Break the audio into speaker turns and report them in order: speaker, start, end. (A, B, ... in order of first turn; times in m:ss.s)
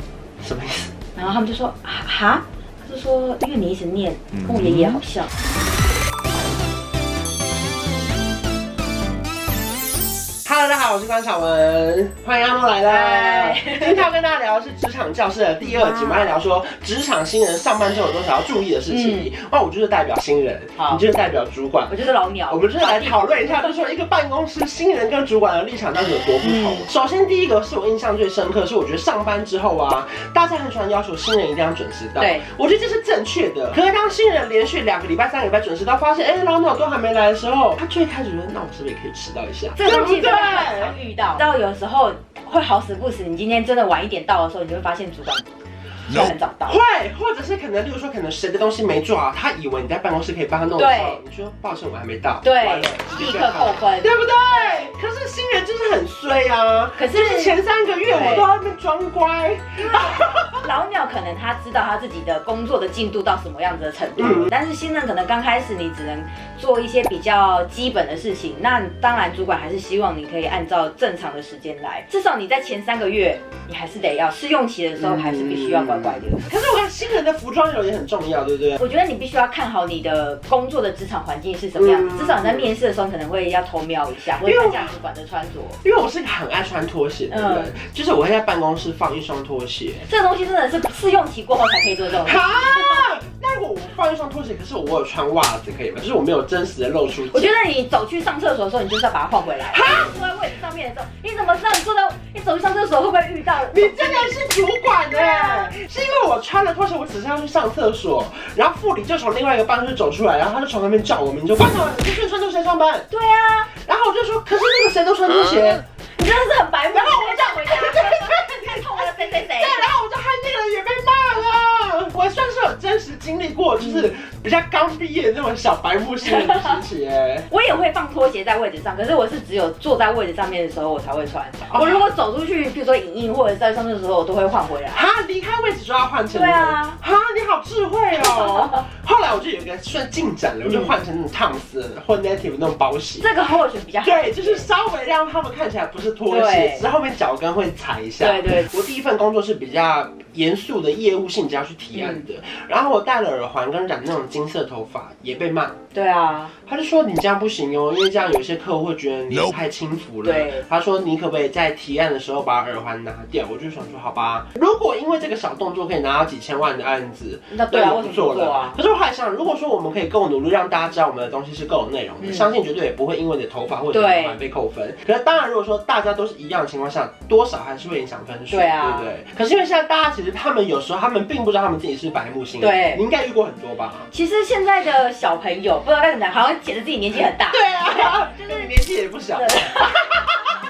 0:00.4-0:00.9 A
0:01.2-0:05.3 B
0:10.4-0:22.0 A
0:12.8-0:14.1 B
0:18.9-0:19.3 B
0:20.8-0:21.0 B
0:21.9-0:23.9 B
0:22.5-0:41.0 A
0:26.4-0:26.8 B
0:32.2-0:32.5 B
0:39.8-0:45.5 B
0:46.1-0:46.8 B
0:46.6-1:00.6 A
0:50.8-0:51.2 B
0:52.4-0:54.8 B
0:57.0-0:58.5 B
0:59.9-1:16.4 B
1:04.2-1:04.5 A
1:15.0-1:18.8 A
1:18.8-1:25.8 B
1:21.8-1:22.7 A
1:24.4-1:24.9 A
1:25.8-1:30.1 A
1:27.3-1:27.7 B
1:30.1-1:33.1 B
1:32.2-1:37.5 A
1:37.3-1:44.4 B
1:39.7-1:40.1 A
1:43.7-1:53.1 A
1:45.1-1:45.7 B
1:53.1-1:53.7 B
1:53.7-1:55.8 A
1:56.2-1:59.9 B
1:56.9-2:07.5 A
2:03.8-2:04.1 B
2:06.3-2:06.8 B
2:07.5-2:15.0 B
2:11.7-2:12.0 A
2:14.9-2:23.3 A
2:16.3-2:17.0 B
2:18.2-2:18.8 B
2:20.7-2:20.9 B
2:23.2-2:24.7 B
2:24.0-2:35.8 A
2:26.3-2:26.9 B
2:28.2-2:28.8 B
2:31.9-2:32.2 B
2:35.9-2:36.5 B
2:36.6-3:04.1 A
2:40.2-2:40.6 B
2:47.5-2:48.8 B
2:52.2-2:52.5 B
2:53.9-2:54.4 B
2:58.5-2:59.1 B
3:02.6-3:03.0 B
3:04.1-3:08.7 B
3:07.5-3:10.5 A
3:09.4-3:10.0 B